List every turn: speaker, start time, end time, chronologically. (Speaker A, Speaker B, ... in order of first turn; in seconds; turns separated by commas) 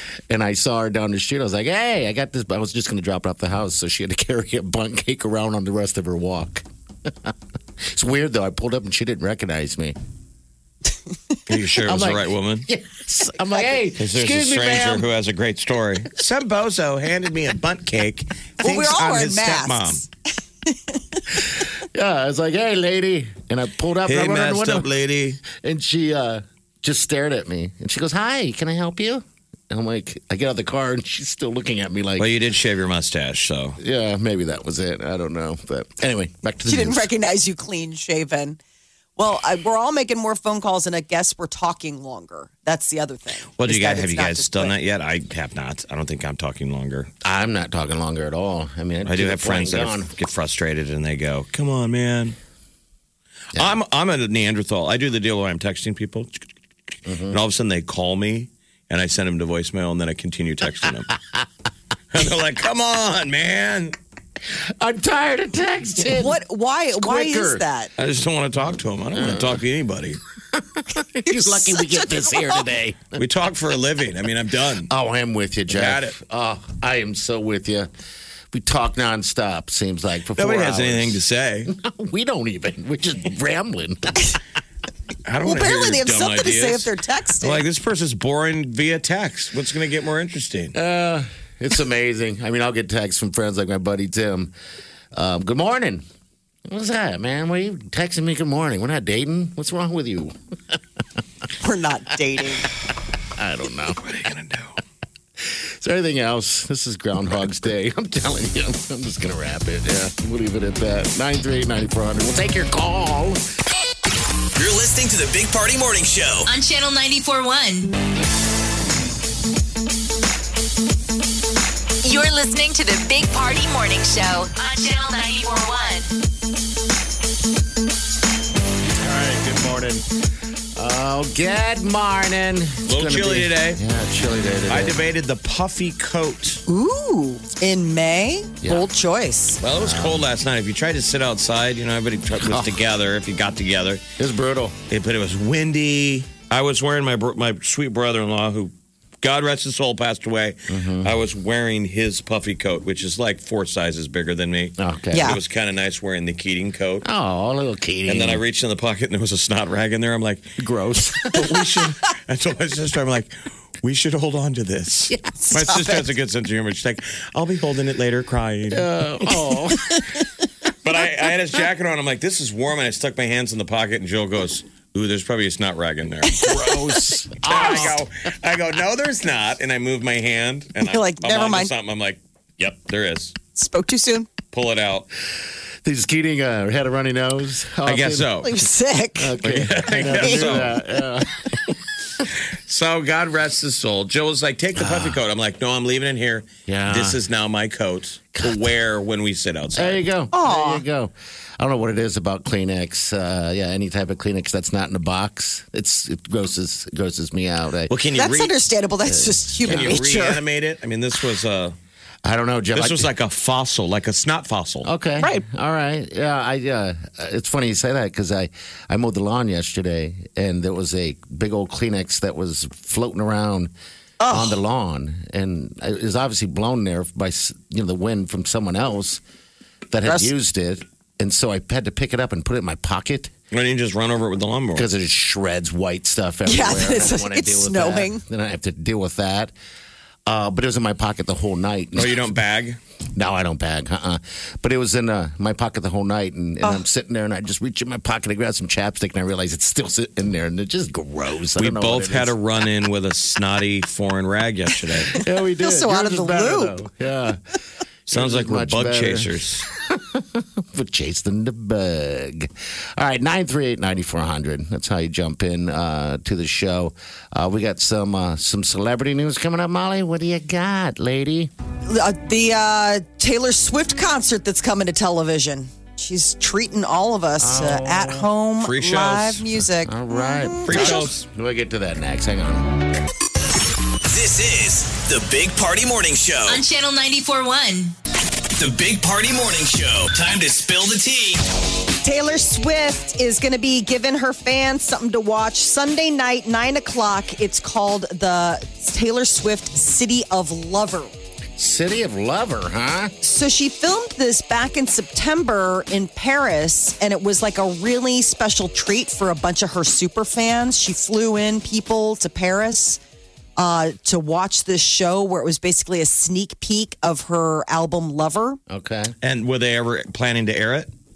Speaker A: 0.3-10.0, Speaker B: 11.5-12.7, Speaker A: 11.8-15.1, Speaker B: 14.0-20.0, Speaker C: 18.6-20.1, Speaker C: 20.7-21.0, Speaker A: 21.6-24.9, Speaker B: 24.1-25.4, Speaker A: 25.4-32.3, Speaker B: 32.2-33.8, Speaker A: 33.8-37.1, Speaker C: 36.7-38.6, Speaker C: 39.2-44.7, Speaker B: 43.6-47.1, Speaker A: 47.2-50.1, Speaker B: 49.0-52.4, Speaker B: 53.5-56.4, Speaker A: 57.1-57.4, Speaker B: 57.3-61.1, Speaker B: 62.1-64.0, Speaker A: 64.8-66.4, Speaker C: 66.0-67.9, Speaker A: 67.0-67.6, Speaker B: 68.0-70.2, Speaker A: 69.1-69.6, Speaker A: 70.5-73.2, Speaker C: 71.3-72.7, Speaker B: 73.2-74.9, Speaker A: 74.9-77.9, Speaker B: 75.7-76.2, Speaker A: 78.5-84.3, Speaker B: 80.4-81.7, Speaker B: 85.3-86.9, Speaker C: 85.5-87.6, Speaker B: 87.4-90.7, Speaker A: 90.7-94.5, Speaker A: 95.1-96.0, Speaker A: 96.7-100.8, Speaker C: 101.6-102.7, Speaker A: 103.4-104.3, Speaker B: 104.0-104.8, Speaker A: 105.4-113.4, Speaker D: 114.6-116.5, Speaker E: 116.5-117.9, Speaker E: 122.0-126.1, Speaker A: 129.0-130.1, Speaker A: 130.8-135.0, Speaker B: 132.9-133.8, Speaker B: 134.7-136.6, Speaker C: 136.7-139.6, Speaker A: 138.6-138.9, Speaker B: 139.6-144.0, Speaker A: 139.7-140.2, Speaker A: 142.4-142.8, Speaker A: 144.2-144.8, Speaker B: 144.9-157.1, Speaker A: 150.7-151.1, Speaker A: 154.8-155.4, Speaker C: 155.1-155.4, Speaker A: 157.0-158.4, Speaker B: 158.1-160.5, Speaker A: 160.6-161.6, Speaker B: 161.2-168.9, Speaker C: 165.4-166.0, Speaker A: 168.7-170.0, Speaker B: 170.8-176.7, Speaker C: 176.3-176.8, Speaker A: 176.4-178.1, Speaker B: 177.4-183.4, Speaker C: 180.9-181.7, Speaker C: 183.6-184.3, Speaker B: 184.5-185.1, Speaker A: 185.8-188.3, Speaker B: 187.8-188.6, Speaker C: 188.4-189.3, Speaker A: 189.2-191.5, Speaker B: 189.4-190.8, Speaker C: 190.2-190.6, Speaker B: 192.7-200.0, Speaker A: 194.8-195.2, Speaker A: 196.7-197.2, Speaker A: 198.3-198.7, Speaker A: 199.7-207.9, Speaker C: 200.3-200.8, Speaker B: 207.9-208.6, Speaker C: 208.2-210.4, Speaker A: 209.1-210.0, Speaker B: 209.6-211.8, Speaker A: 212.2-213.1, Speaker B: 212.7-214.9, Speaker A: 214.8-223.7, Speaker C: 224.2-224.6, Speaker A: 224.3-229.2, Speaker A: 229.9-233.3, Speaker C: 230.1-230.3, Speaker B: 233.5-234.9, Speaker A: 234.8-239.5, Speaker C: 236.5-238.2, Speaker A: 240.3-242.3, Speaker B: 242.0-242.8, Speaker A: 243.2-252.4, Speaker B: 251.6-255.2, Speaker A: 255.1-257.4, Speaker C: 255.6-256.8, Speaker B: 258.1-259.7, Speaker A: 258.1-271.5, Speaker C: 271.9-281.1, Speaker A: 277.4-278.3, Speaker B: 278.6-279.4, Speaker A: 279.9-282.7, Speaker B: 280.7-281.2, Speaker D: 284.1-286.6, Speaker E: 286.5-287.9, Speaker D: 288.6-291.4, Speaker C: 292.0-301.1, Speaker A: 301.6-303.1, Speaker C: 303.2-313.0, Speaker C: 313.6-318.6, Speaker A: 318.7-319.1, Speaker B: 319.2-320.9